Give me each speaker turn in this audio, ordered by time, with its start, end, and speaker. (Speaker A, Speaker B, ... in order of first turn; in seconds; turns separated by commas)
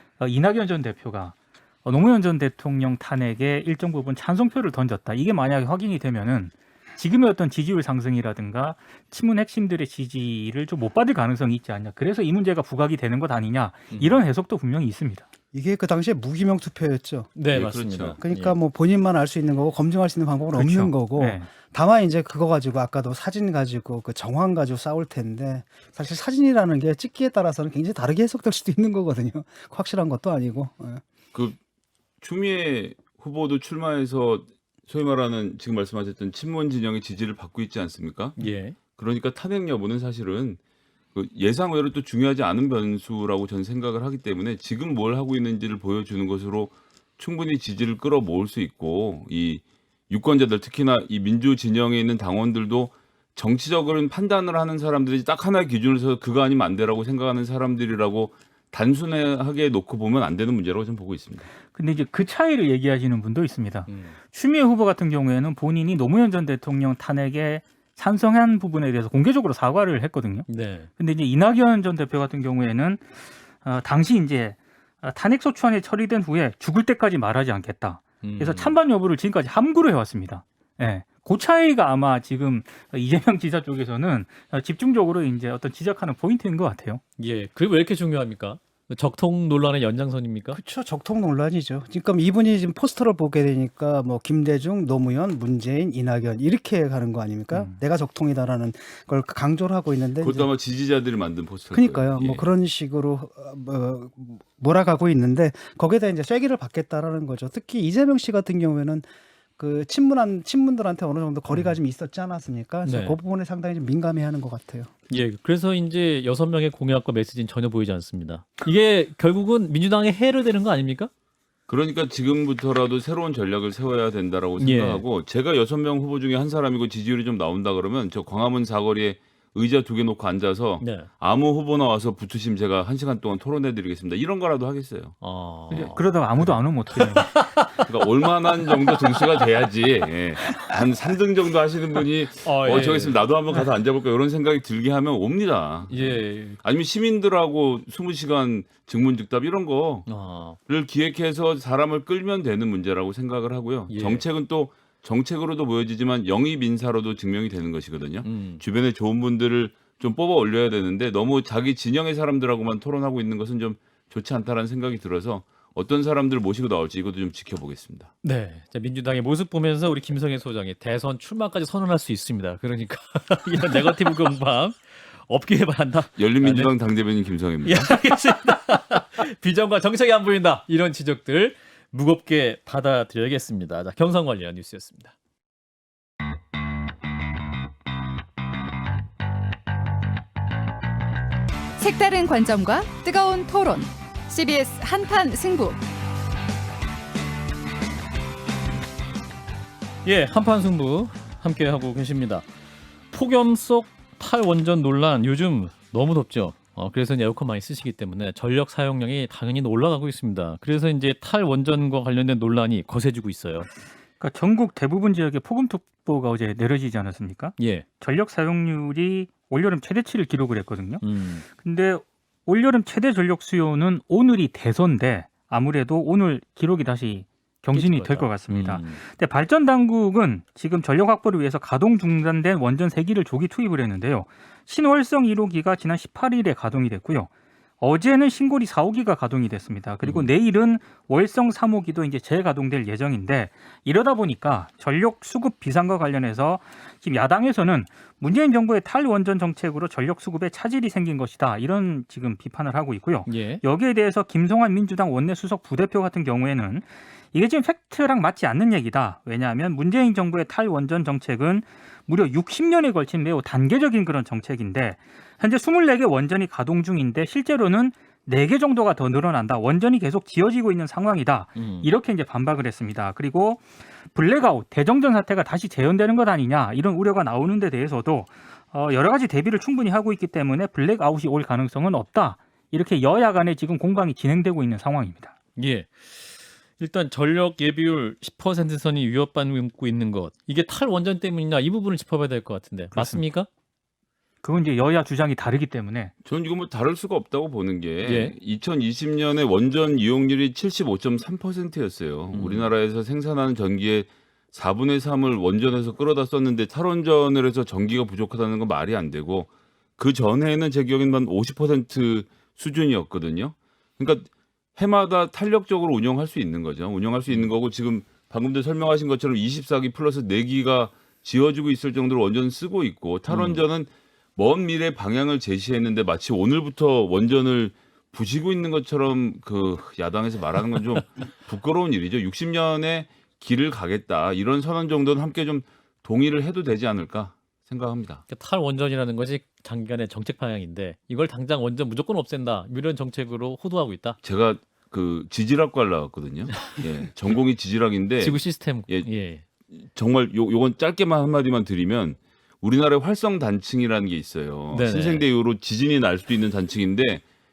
Speaker A: 0.2-15.3, Speaker B: 13.9-14.2, Speaker C: 15.5-17.3, Speaker B: 17.4-18.6, Speaker D: 17.5-18.2, Speaker C: 18.2-31.0, Speaker A: 20.6-21.5, Speaker D: 32.2-38.4, Speaker B: 38.4-38.8, Speaker D: 39.0-40.6, Speaker D: 41.1-61.5, Speaker A: 61.7-70.5, Speaker B: 63.9-64.2, Speaker B: 70.5-70.9, Speaker A: 71.0-87.0, Speaker B: 78.2-78.8, Speaker B: 87.2-90.6, Speaker C: 90.5-100.5, Speaker D: 100.2-102.5, Speaker C: 101.7-109.0, Speaker C: 109.6-114.9, Speaker B: 111.5-111.8, Speaker B: 112.8-113.2, Speaker B: 115.1-121.1, Speaker D: 121.7-135.2, Speaker B: 124.6-125.0, Speaker B: 130.8-131.1, Speaker B: 135.2-137.8, Speaker D: 135.7-136.5, Speaker A: 135.7-137.8, Speaker D: 137.8-150.1, Speaker B: 142.4-143.2, Speaker B: 145.9-146.6, Speaker B: 150.1-150.6, Speaker D: 150.7-168.1, Speaker B: 153.9-154.2, Speaker B: 158.2-158.6, Speaker B: 168.2-176.7, Speaker D: 176.2-177.9, Speaker B: 177.6-185.1, Speaker E: 191.8-195.8, Speaker B: 200.0-202.4, Speaker B: 203.1-213.7, Speaker A: 214.2-285.3, Speaker B: 217.6-217.8, Speaker B: 221.0-221.4, Speaker B: 227.7-229.0, Speaker B: 240.0-240.3, Speaker B: 253.2-253.6, Speaker B: 271.6-271.9, Speaker B: 285.6-293.5, Speaker A: 292.9-293.2, Speaker A: 294.4-296.1, Speaker D: 296.2-338.2, Speaker B: 298.0-298.3, Speaker B: 302.3-302.7, Speaker B: 323.3-323.6, Speaker B: 338.3-344.2, Speaker D: 344.2-349.1, Speaker B: 348.2-349.4, Speaker D: 349.7-357.2, Speaker B: 354.7-355.2